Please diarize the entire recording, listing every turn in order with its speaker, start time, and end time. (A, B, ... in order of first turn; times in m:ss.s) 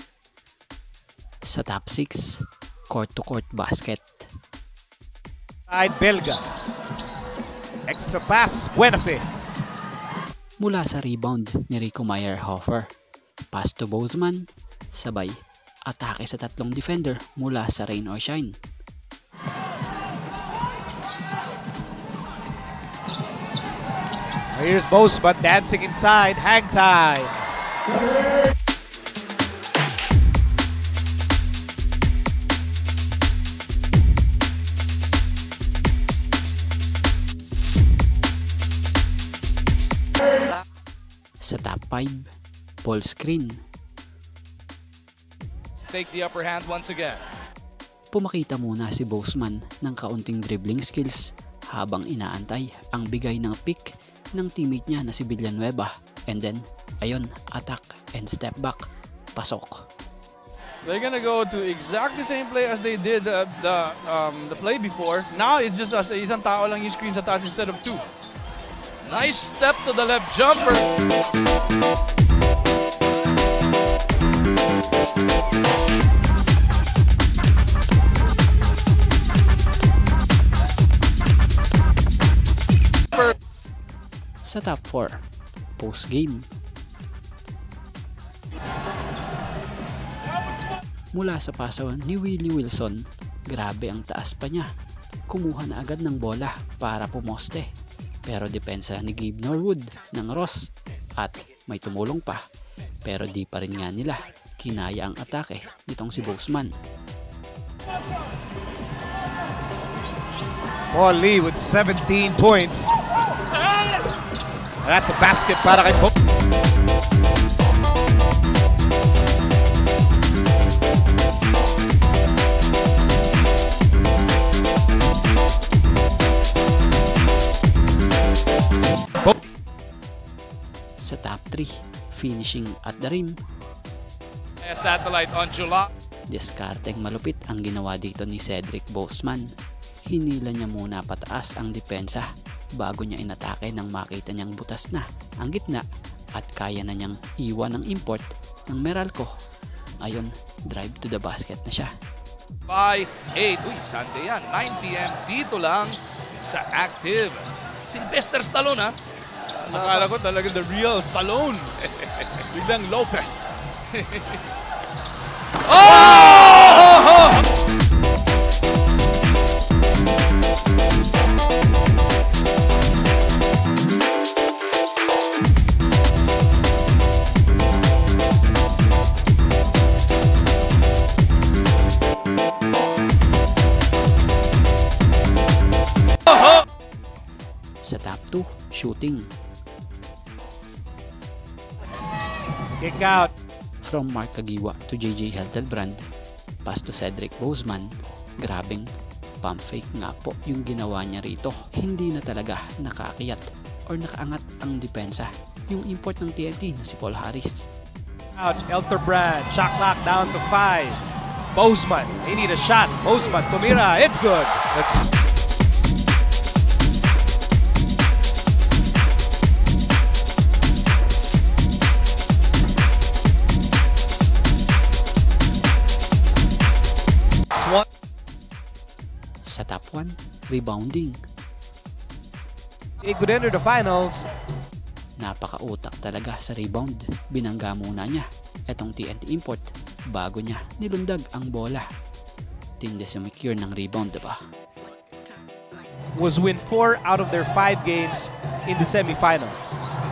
0:01.5-0:04.3 A
0:05.7-0:06.4 B
0:07.9-0:09.2 B
0:10.6-0:12.9 A
0:13.5-0:18.6 A
0:24.5-0:27.4 B
0:41.4-0:42.3 A
0:42.8-0:43.6 A
0:45.9-0:47.2 C
0:48.1-0:59.7 A
1:00.8-1:08.1 D
1:09.0-1:10.9 C
1:24.4-1:25.2 A
1:25.8-1:26.4 A
1:31.2-1:34.7 A
1:35.3-1:37.7 A
1:38.2-1:42.4 A
1:43.0-1:46.7 A
1:50.9-1:52.9 B
1:54.8-1:56.1 B
2:11.0-2:13.4 A
2:14.6-2:15.9 C
2:16.3-2:19.5 A
2:20.1-2:29.3 A
2:30.0-2:31.9 A
2:32.7-2:39.0 C
2:39.6-2:40.1 C
2:39.7-2:41.8 D
2:42.0-2:42.4 C
2:42.5-2:43.5 D
2:43.9-2:44.4 C
2:45.6-2:47.4 C
3:07.8-3:09.3 A
3:12.8-3:13.3 B
3:13.8-3:16.0 A
3:16.6-3:18.9 A
3:19.4-3:27.6 A
3:28.4-3:31.0 B
3:31.6-3:35.0 B
3:47.6-3:47.8 B
3:49.4-3:51.2 A
3:53.0-3:54.2 B
3:55.2-4:01.9 A
4:02.8-4:04.4 A
4:06.2-4:09.8 B